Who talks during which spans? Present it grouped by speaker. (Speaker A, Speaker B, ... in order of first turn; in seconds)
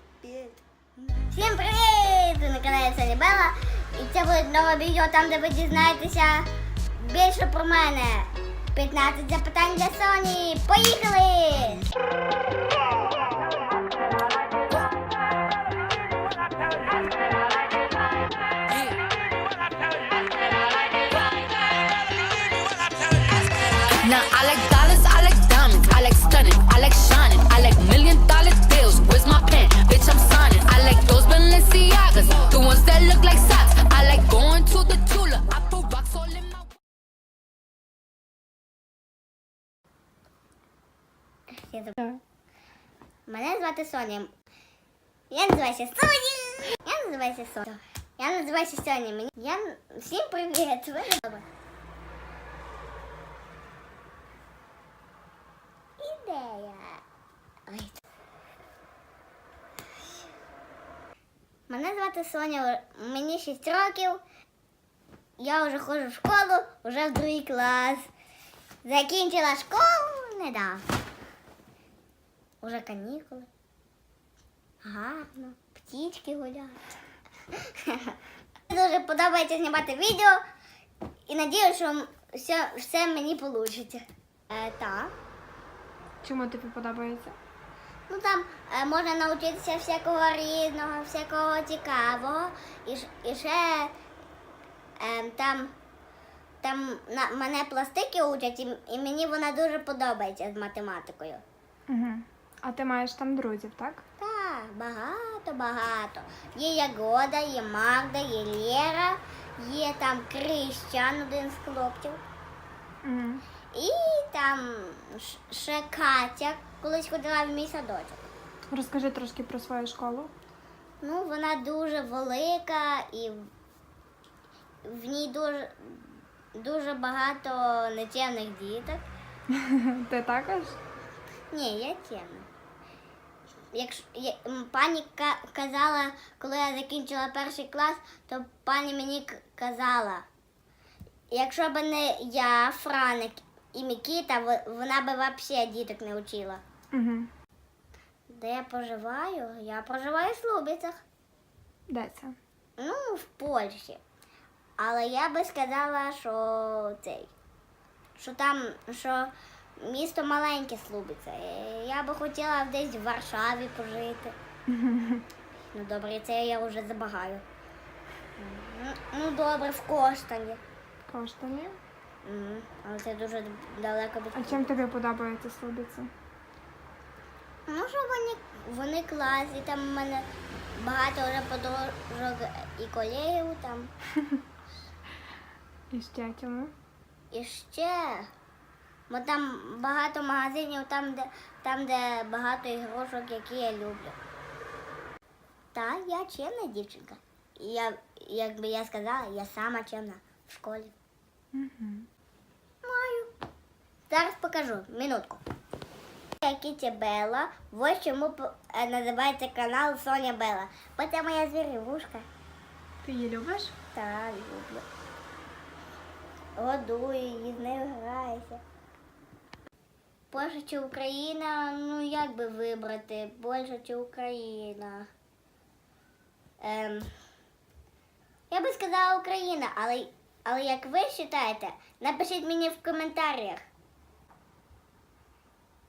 Speaker A: 0.2-11.9, 41.5-42.2, 43.3-44.3, 45.3-51.5, 56.0-57.0, 57.7-58.0, 61.7-64.2, 65.4-68.1, 68.8-70.8, 72.6-73.5, 74.8-76.9, 77.5-78.2, 78.7-80.4, 81.3-85.1, 88.1-93.9, 95.0-95.7, 96.6-101.4, 104.2-112.2, 113.7-118.3, 121.0-123.5, 124.8-129.0, 131.5-132.5, 133.7-140.3, 141.3-146.6, 148.3-151.0, 152.8-154.0, 154.8-157.3, 158.2-164.4, 165.7-167.4, 168.4-170.6, 172.2-174.8, 177.7-183.9, 187.3-188.3, 189.1-194.2, 195.7-200.9, 202.8-203.3, 204.1-205.4, 206.4-212.3, 213.9-214.8, 216.6-218.6, 220.3-225.1, 226.6-227.1, 228.5-233.6
Speaker B: 23.0-36.7
Speaker C: 86.2-87.4, 101.9-104.0, 113.0-113.4, 118.7-120.3, 129.5-130.8, 146.9-147.3, 151.9-152.4, 164.7-165.2, 171.1-171.8, 174.4-176.1, 185.9-186.7, 201.5-202.1, 213.0-213.8